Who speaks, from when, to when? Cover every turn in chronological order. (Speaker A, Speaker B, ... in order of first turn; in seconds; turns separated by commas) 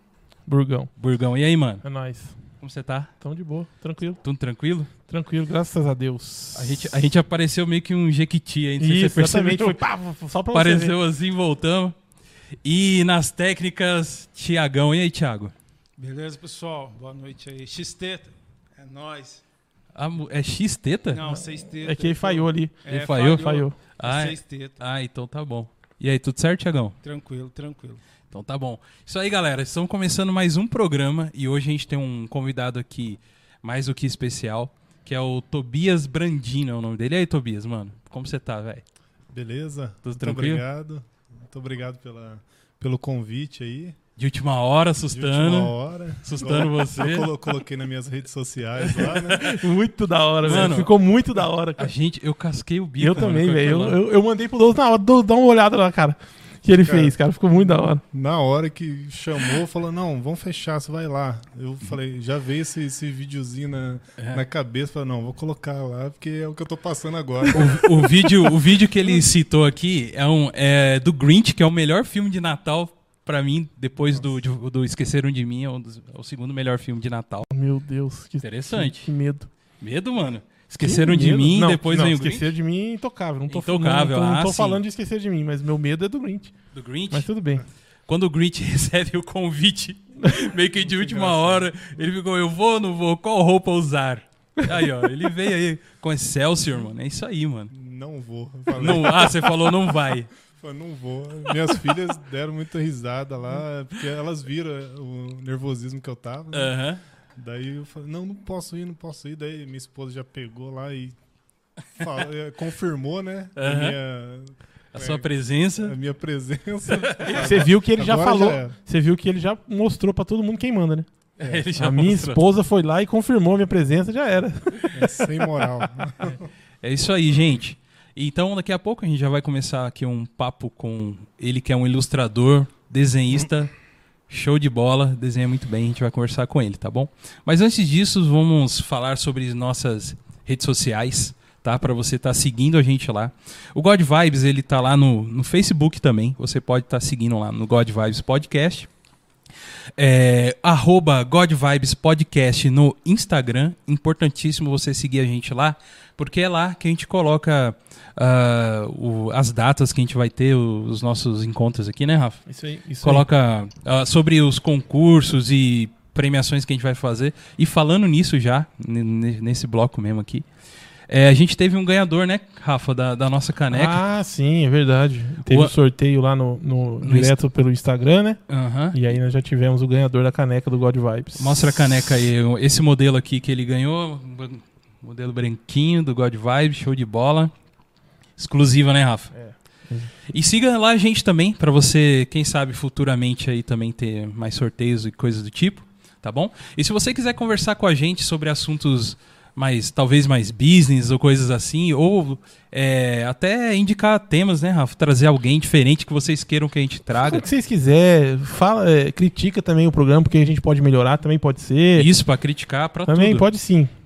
Speaker A: 0.5-0.9, Speaker B: 1.0-1.8, Speaker A: 1.8-2.4, Speaker B: 2.6-3.1, Speaker A: 3.2-4.2, Speaker B: 4.2-4.9, Speaker A: 5.1-6.9, Speaker B: 6.5-9.8, Speaker A: 8.8-10.9, Speaker B: 10.5-11.9, Speaker B: 12.6-15.5, Speaker C: 16.0-19.4, Speaker B: 19.9-21.3, Speaker C: 21.1-24.8, Speaker A: 21.3-22.8, Speaker B: 22.9-27.0, Speaker A: 23.3-23.8, Speaker C: 27.0-28.0, Speaker B: 28.3-38.8, Speaker D: 39.3-44.0, Speaker B: 40.0-40.6, Speaker B: 44.2-47.3, Speaker D: 45.1-49.5, Speaker B: 48.9-49.5, Speaker A: 49.3-51.9, Speaker B: 50.4-50.9, Speaker B: 51.8-54.0, Speaker A: 53.0-58.0, Speaker D: 56.8-69.2, Speaker B: 64.2-64.4, Speaker B: 67.5-77.5, Speaker A: 77.5-79.5, Speaker B: 78.4-79.1, Speaker B: 79.8-82.5, Speaker A: 80.8-86.5, Speaker B: 83.5-84.8, Speaker B: 86.7-87.3, Speaker A: 87.1-87.6, Speaker B: 88.1-97.7, Speaker D: 90.8-92.0, Speaker D: 97.7-99.7, Speaker B: 98.7-100.3, Speaker D: 100.5-106.7, Speaker B: 106.5-107.0, Speaker D: 107.3-111.2, Speaker D: 111.9-118.8, Speaker B: 113.5-114.0, Speaker B: 114.9-116.0, Speaker B: 116.9-117.5, Speaker A: 117.2-121.1, Speaker D: 121.4-121.7, Speaker B: 121.4-122.4, Speaker A: 121.8-125.1, Speaker D: 124.9-126.5, Speaker B: 126.8-133.7, Speaker B: 134.3-148.9, Speaker B: 150.0-162.5, Speaker A: 162.5-163.2, Speaker B: 163.0-170.4, Speaker B: 171.1-174.0, Speaker A: 173.7-178.4, Speaker B: 175.4-175.7, Speaker B: 177.0-177.4, Speaker B: 178.5-179.0, Speaker A: 178.9-181.9, Speaker B: 181.4-187.5, Speaker B: 188.4-189.3, Speaker A: 189.3-190.1, Speaker B: 190.3-207.5, Speaker A: 207.2-212.1, Speaker B: 211.9-213.5, Speaker A: 213.1-213.9